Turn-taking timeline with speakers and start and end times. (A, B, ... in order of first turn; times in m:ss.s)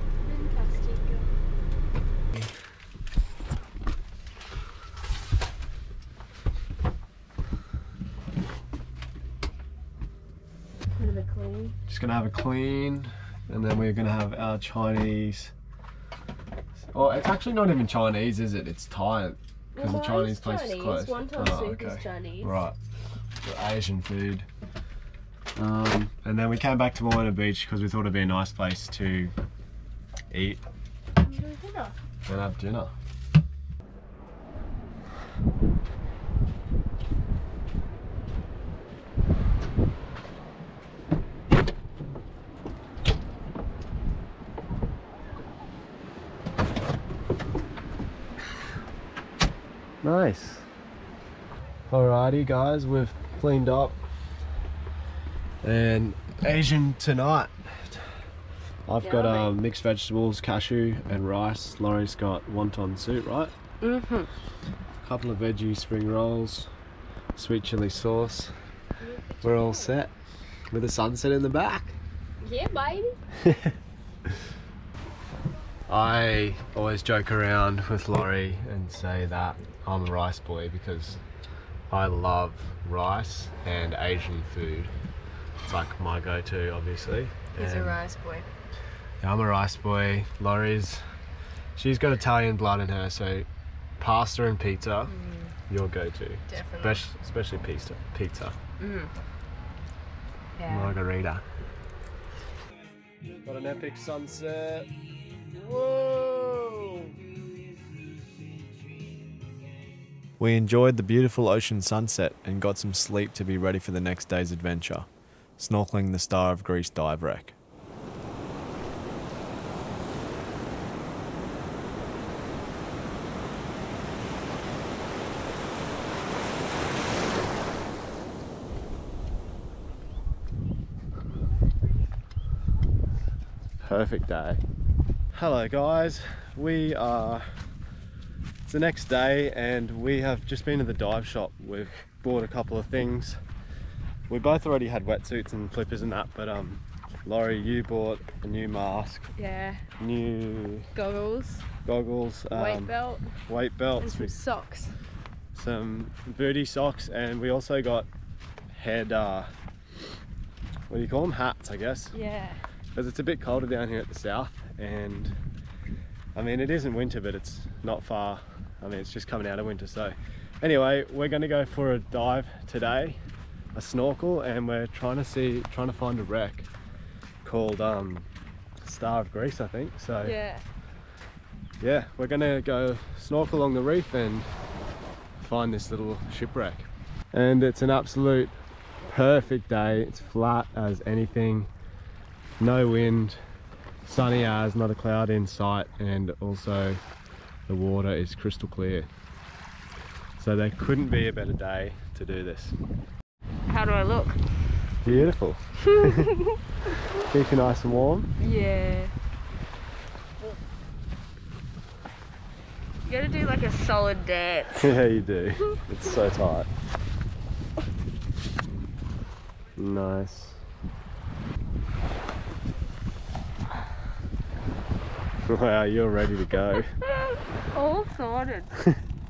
0:00.2-0:01.3 A
0:10.9-0:11.8 A
0:11.9-0:15.5 B
0:16.9-0:22.8 B
0:19.8-0:22.6 A
0:23.4-0:24.5 B
0:25.6-0:29.3 B
0:30.3-0:30.6 B
0:31.2-0:32.0 A
0:32.2-0:32.9 B
0:50.0-0:50.7 B
0:51.9-0:54.0 B
0:55.6-0:58.0 B
0:58.9-1:03.5 B
0:59.0-0:59.5 A
1:03.8-1:04.3 A
1:05.0-1:06.7 B
1:07.4-1:08.5 B
1:09.0-1:10.0 A
1:09.4-1:10.1 B
1:10.7-1:12.0 B
1:12.4-1:13.2 A
1:13.4-1:13.7 B
1:15.9-1:21.2 B
1:21.9-1:24.9 B
1:25.7-1:28.0 B
1:27.5-1:28.5 A
1:29.2-1:31.0 B
1:31.8-1:33.5 B
1:34.0-1:35.1 B
1:35.1-1:35.5 A
1:35.7-1:38.6 B
1:36.5-1:37.0 A
1:38.8-1:39.1 A
1:40.6-1:41.0 A
1:40.7-1:41.4 B
1:43.4-1:44.9 B
1:45.4-1:47.2 B
1:50.4-1:57.6 C
2:13.8-2:14.6 B
2:15.3-2:17.5 B
2:18.7-2:23.4 B
2:24.3-2:29.3 B
2:29.4-2:29.8 A
2:30.0-2:30.9 B
2:31.0-2:31.7 A
2:31.8-2:34.3 B
2:32.5-2:33.3 A
2:34.0-2:35.0 A
2:35.5-2:38.1 B
2:38.7-2:39.5 B
2:40.9-2:42.2 B
2:42.1-2:42.6 A
2:42.9-2:45.4 B
2:46.4-2:53.2 B
2:53.7-2:56.7 B
2:57.4-2:58.3 B
2:58.8-3:00.3 B
3:00.2-3:00.6 A
3:01.8-3:04.5 B
3:05.4-3:08.5 B
3:09.1-3:11.7 B
3:12.6-3:13.4 B
3:14.0-3:17.0 B
3:17.7-3:19.1 B
3:20.4-3:22.8 B
3:23.7-3:24.4 A
3:25.0-3:26.4 B
3:26.0-3:26.4 A
3:27.2-3:28.3 B
3:28.4-3:29.1 A
3:33.0-3:35.0 A
3:34.8-3:36.7 B
3:39.8-3:40.6 B
3:45.5-3:46.9 B
3:47.7-3:48.7 A